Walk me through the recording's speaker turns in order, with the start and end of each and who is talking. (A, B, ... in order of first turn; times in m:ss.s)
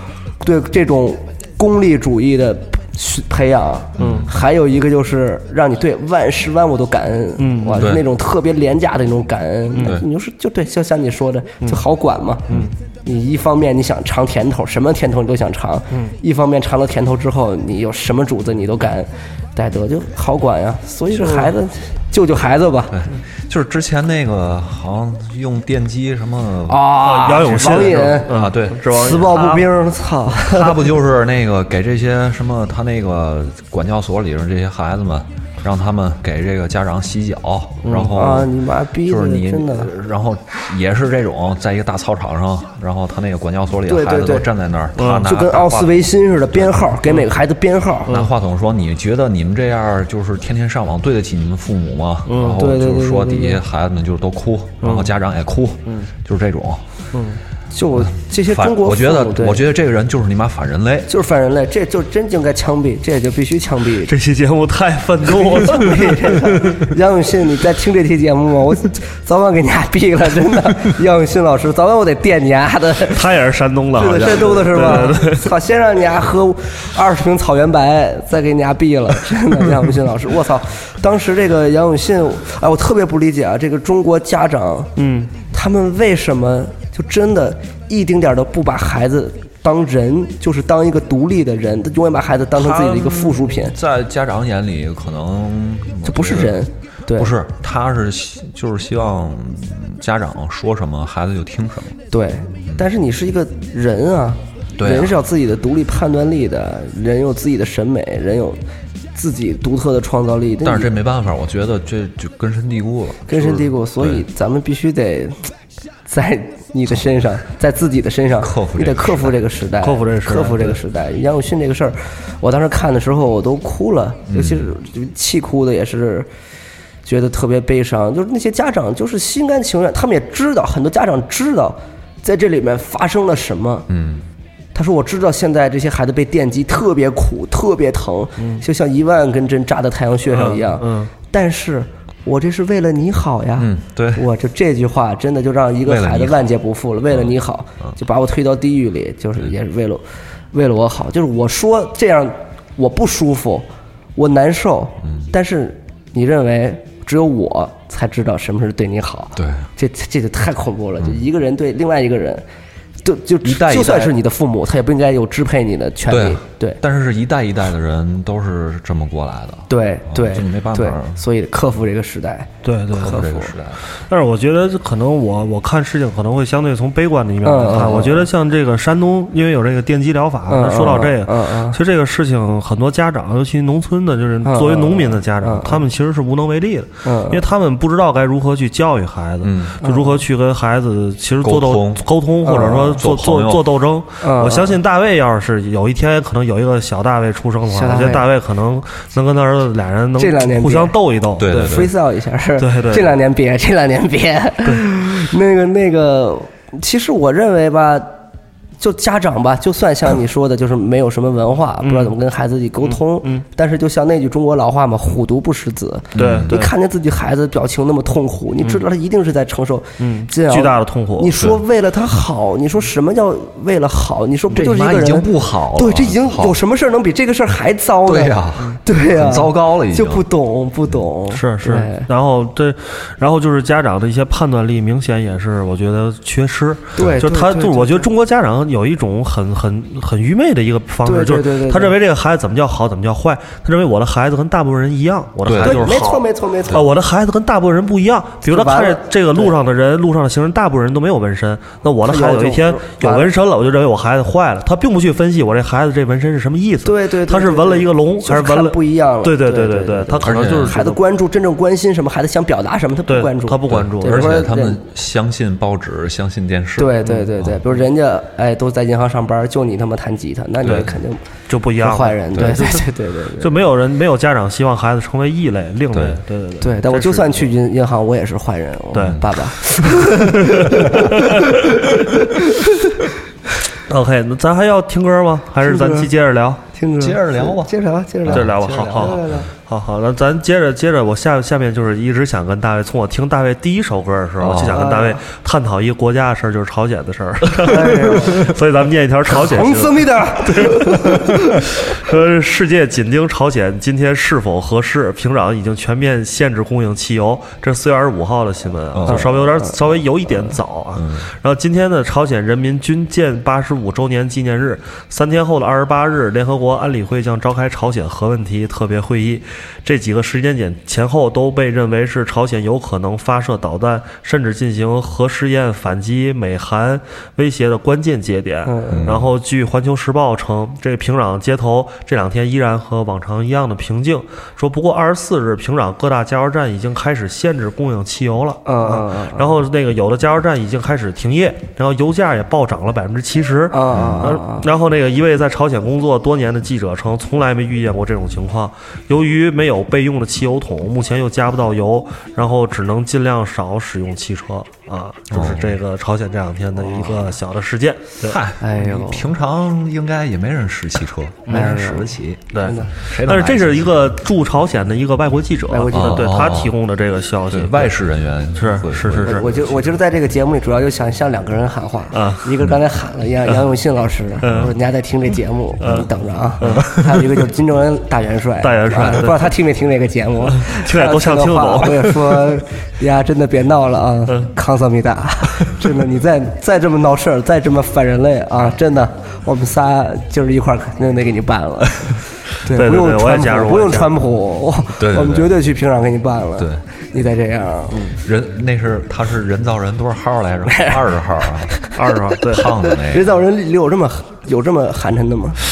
0:00.4-0:23.0 A
0:04.0-0:04.3 B
0:04.0-0:04.3 C
0:07.4-0:07.9 C
0:07.8-0:08.0 B
0:09.8-0:10.0 C
0:21.2-0:21.5 C
0:22.9-0:28.9 B
0:26.7-0:30.8 A
0:27.0-0:29.7 C
0:30.4-0:46.9 B
0:37.8-0:38.2 C
0:38.1-0:39.9 A
0:43.9-0:44.5 A
0:45.0-0:45.3 C
0:45.2-0:48.2 A
0:48.1-0:56.8 B
0:52.3-0:52.6 C
0:52.6-0:53.6 A
0:54.8-0:55.1 C
0:57.1-0:57.4 C
0:57.7-0:59.7 A
0:58.0-1:01.1 B
1:01.1-1:04.1 A
1:04.1-1:06.8 C
1:05.5-1:13.2 A
1:13.1-1:15.5 C
1:14.0-1:24.9 A
1:25.0-1:25.3 C
1:25.5-1:33.8 A
1:32.6-1:42.0 B
1:36.0-1:37.4 A
1:42.1-1:48.6 A
1:44.8-1:45.2 B
1:49.2-1:50.9 A
1:50.6-1:54.3 B
1:53.3-1:55.5 A
1:56.1-2:06.3 A
1:58.4-1:59.4 B
1:59.8-2:00.8 C
2:04.3-2:04.7 B
2:07.0-2:13.9 A
2:13.9-2:14.3 B
2:14.8-2:42.4 A
2:18.4-2:18.6 C
2:20.3-2:21.1 C
2:23.6-2:24.3 B
2:25.8-2:26.4 B
2:39.4-2:39.7 B
2:43.0-2:46.8 A
2:43.4-2:44.2 B
2:46.1-2:51.2 B
2:49.7-2:53.5 A
2:52.6-2:53.2 C
2:53.0-2:53.8 B
2:54.1-3:21.9 C
2:57.4-2:58.3 A
3:00.5-3:01.8 A
3:04.4-3:05.8 A
3:07.0-3:07.4 A
3:09.4-3:09.8 B
3:09.8-3:10.2 A
3:11.4-3:12.1 B
3:12.4-3:13.0 A
3:12.6-3:13.7 B
3:14.2-3:14.8 A
3:17.7-3:18.3 A
3:20.2-3:28.1 A
3:21.4-3:21.9 B
3:22.6-3:23.1 C
3:28.8-3:52.1 A
3:31.8-3:32.2 C
3:32.8-3:33.4 C
3:36.2-3:36.6 B
3:36.2-3:36.7 C
3:40.0-3:41.4 C
3:44.5-3:46.6 B
3:48.0-3:50.3 B
3:51.3-4:21.0 C
3:57.0-3:58.1 A
4:01.0-4:02.0 A
4:05.4-4:05.9 B
4:05.6-4:06.8 A
4:08.4-4:09.6 A
4:12.0-4:13.3 A
4:16.8-4:24.8 A
4:20.2-4:20.8 B
4:23.1-4:24.4 C
4:23.7-4:27.6 B
4:26.8-4:31.2 A
4:30.6-4:30.9 B
4:31.5-4:32.9 C
4:31.8-4:33.6 A
4:33.4-4:37.5 C
4:35.9-4:36.2 B
4:36.6-4:41.3 A
4:38.9-4:39.2 C
4:39.0-4:40.1 B
4:40.1-4:41.4 C
4:43.9-4:46.6 C
4:45.6-4:46.1 A
4:46.8-4:49.5 A
4:47.0-4:49.5 B
4:48.3-5:58.4 C
4:54.4-4:54.9 B
4:54.7-4:55.2 A
4:57.6-4:58.5 A
4:59.3-5:01.6 A
5:08.9-5:09.3 B
5:09.1-5:09.7 A
5:11.0-5:11.3 B
5:28.6-5:29.1 A
5:28.9-5:29.3 B
5:38.7-5:39.5 A
5:43.7-5:44.7 A
5:43.9-5:44.4 B
5:55.3-5:55.8 B
5:58.2-6:04.0 B
5:58.6-5:59.3 A
6:01.5-6:01.9 C
6:01.5-6:02.9 A
6:02.5-6:08.0 C
6:05.7-6:06.4 A
6:05.9-6:06.8 B
6:07.5-6:09.8 B
6:08.6-6:09.4 C
6:09.2-6:38.1 A
6:12.1-6:12.5 C
6:14.4-6:14.7 C
6:14.5-6:14.7 B
6:15.8-6:16.1 C
6:16.6-6:17.1 C
6:18.6-6:19.5 C
6:20.5-6:22.6 C
6:32.7-6:34.1 C
6:35.0-6:35.6 B
6:36.6-6:36.8 B
6:38.2-6:41.8 B
6:42.0-6:42.7 C
6:42.4-6:43.4 B
6:43.1-6:45.6 A